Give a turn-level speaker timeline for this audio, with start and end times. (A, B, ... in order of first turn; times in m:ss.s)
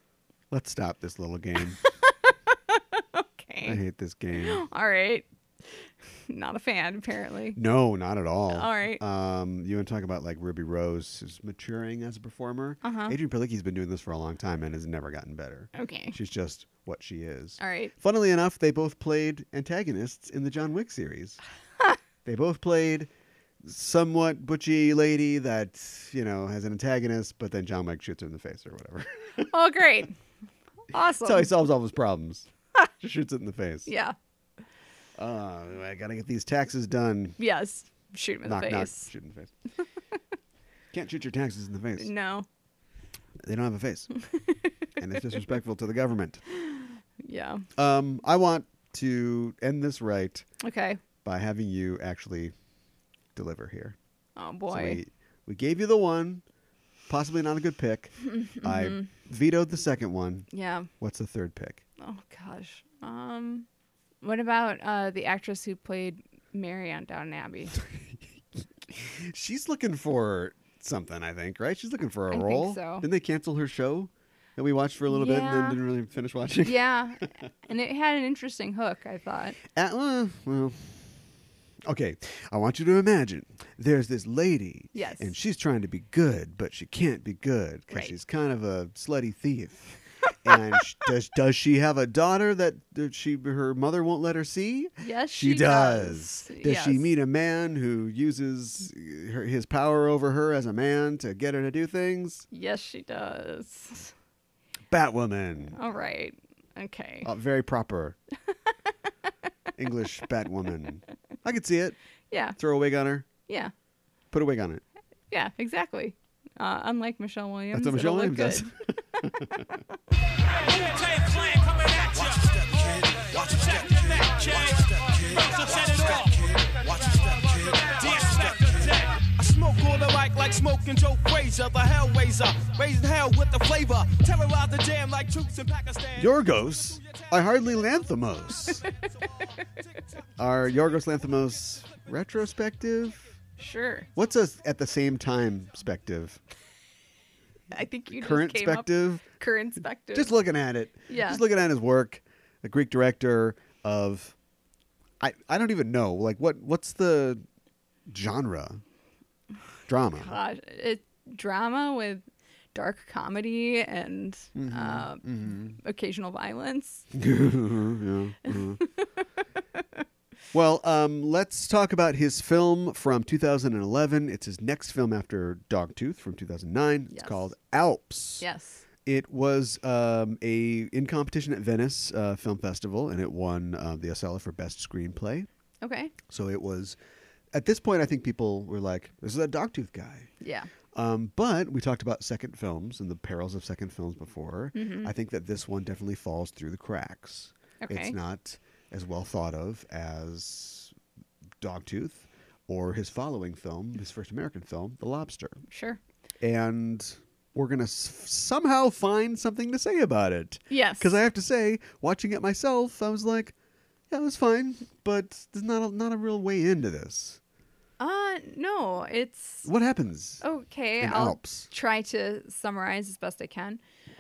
0:00.5-0:01.8 A
0:01.8-0:03.8 B
0:03.6-0:04.6 A
0:04.3-0:07.6 B
0:07.6-0:21.4 A
0:08.5-0:09.0 B
0:12.8-0:13.2 B
0:15.7-0:16.2 B
0:17.6-0:17.9 B
0:22.2-0:23.1 A
0:23.6-0:29.5 A
0:29.5-0:30.2 B
0:30.9-0:31.5 B
0:31.2-0:32.5 A
0:33.0-0:33.9 A
0:33.9-0:34.2 B
0:35.2-0:37.4 A
0:37.4-0:39.1 B
0:38.4-0:39.5 A
0:40.9-0:42.1 A
0:42.0-0:42.5 B
0:43.4-0:44.1 A
0:44.3-0:44.7 B
0:45.0-0:46.4 A
0:46.7-0:47.7 B
0:47.8-0:50.5 A
0:50.6-0:51.0 B
0:51.2-0:52.5 A
0:53.4-0:54.0 A
0:54.4-0:55.0 B
0:54.7-0:56.4 A
0:57.1-1:01.8 A
0:58.4-0:59.1 B
1:00.5-1:00.9 B
1:02.0-1:03.7 B
1:04.2-1:07.8 B
1:08.9-1:17.2 A
1:12.3-1:13.1 B
1:15.1-1:15.8 B
1:16.6-1:19.6 B
1:19.7-1:21.2 A
1:21.9-1:42.5 A
1:25.0-1:25.3 B
1:35.0-1:37.1 B
1:42.5-1:44.1 B
1:44.9-1:45.8 A
1:45.8-1:47.3 B
1:47.2-1:48.2 A
1:49.8-1:52.0 A
1:52.3-1:52.6 B
1:52.6-1:53.3 A
1:53.5-1:53.7 B
1:54.3-1:54.8 A
1:55.3-1:58.7 B
1:57.7-1:59.7 A
2:00.6-2:16.3 C
2:16.2-2:18.8 A
2:20.4-2:23.3 A
2:23.6-2:24.1 B
2:24.2-2:26.4 A
2:27.7-2:30.3 B
2:28.1-2:29.2 A
2:30.1-2:34.4 A
2:31.1-2:31.4 B
2:35.2-2:37.4 A
2:38.1-2:38.8 A
2:39.9-2:40.4 A
2:40.2-2:47.0 B
2:44.6-2:45.8 A
2:47.1-2:48.8 A
2:48.5-2:49.1 B
2:50.5-2:58.5 A
2:57.1-2:57.4 B
2:58.4-2:58.8 B
2:59.1-3:05.5 A
3:05.8-3:06.1 B
3:06.3-3:07.0 A
3:07.5-3:10.3 A
3:10.4-3:10.7 B
3:10.9-3:21.0 A
3:14.8-3:15.1 B
3:17.8-3:18.2 B
3:21.6-3:25.6 A
3:25.7-3:26.0 B
3:26.4-3:33.6 A
3:30.7-3:31.2 B
3:34.1-3:37.4 A
3:38.0-3:39.7 B
3:39.6-3:40.4 A
3:40.4-3:43.8 B
3:41.0-3:41.7 A